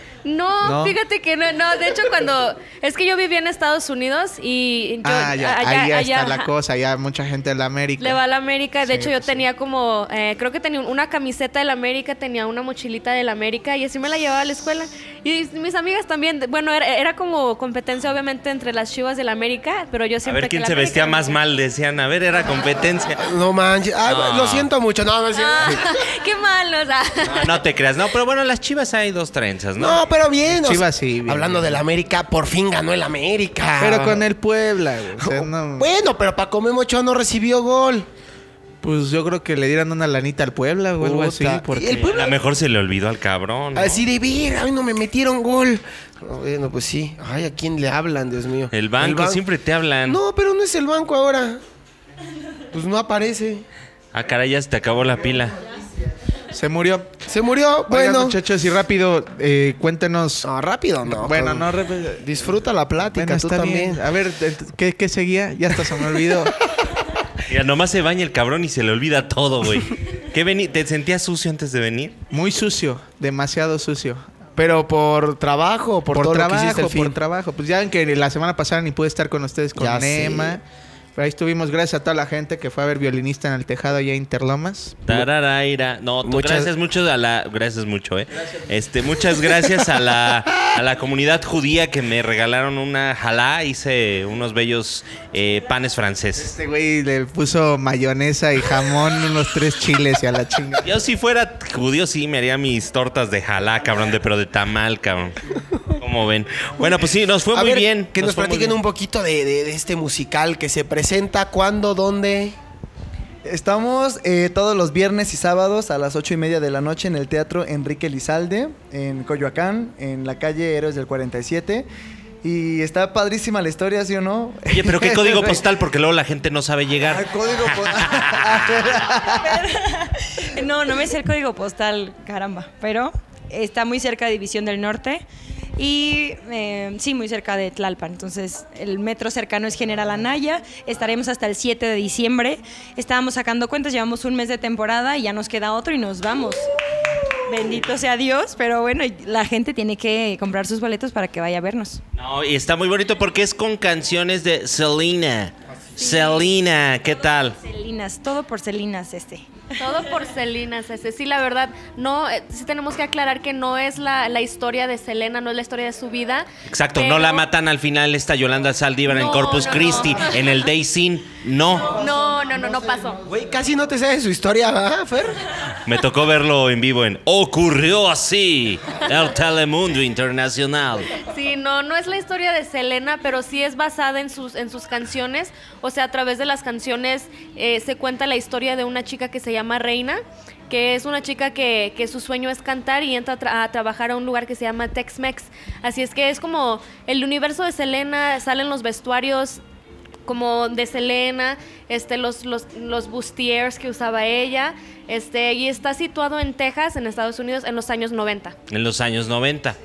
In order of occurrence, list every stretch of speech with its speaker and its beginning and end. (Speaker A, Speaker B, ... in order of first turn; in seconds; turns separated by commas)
Speaker A: 0.2-6.5, Speaker B: 0.6-0.9, Speaker B: 5.0-8.2, Speaker A: 8.0-21.4, Speaker B: 8.8-9.4, Speaker C: 20.2-23.2, Speaker D: 23.2-25.8, Speaker C: 24.1-24.7, Speaker A: 25.3-27.5, Speaker C: 27.2-30.1, Speaker D: 29.8-34.2, Speaker B: 30.5-31.9, Speaker B: 33.8-35.9, Speaker D: 35.2-38.1, Speaker B: 38.8-42.1, Speaker D: 41.0-42.4, Speaker C: 42.1-44.0, Speaker D: 43.8-49.4, Speaker C: 48.7-50.2, Speaker D: 50.1-51.6, Speaker D: 52.7-53.6, Speaker C: 54.1-55.6, Speaker B: 56.5-57.1, Speaker D: 57.3-58.4, Speaker B: 57.9-60.5, Speaker D: 60.4-64.0, Speaker B: 61.1-62.3, Speaker B: 63.1-66.6, Speaker C: 67.5-72.2, Speaker B: 72.3-74.2, Speaker D: 74.6-77.2, Speaker B: 76.1-80.6, Speaker D: 79.8-80.6, Speaker B: 81.2-85.2, Speaker C: 85.1-96.5, Speaker D: 86.2-86.7, Speaker B: 96.4-100.9, Speaker C: 100.8-105.4, Speaker C: 106.0-108.8, Speaker D: 107.5-112.5, Speaker E: 113.5-121.9, Speaker E: 122.4-125.6, Speaker C: 124.7-129.2, Speaker E: 127.1-129.6, Speaker F: 129.3-135.2, Speaker F: 135.8-146.7, Speaker F: 147.4-152.0, Speaker C: 152.2-157.6, Speaker F: 157.4-159.8, Speaker A: 159.8-167.4, Speaker C: 166.7-172.0, Speaker A: 169.1-170.3, Speaker A: 171.8-173.2, Speaker E: 172.1-172.9, Speaker D: 173.3-175.4, Speaker C: 175.8-181.2, Speaker A: 181.2-199.6, Speaker A: 200.3-208.6, Speaker C: 208.7-209.8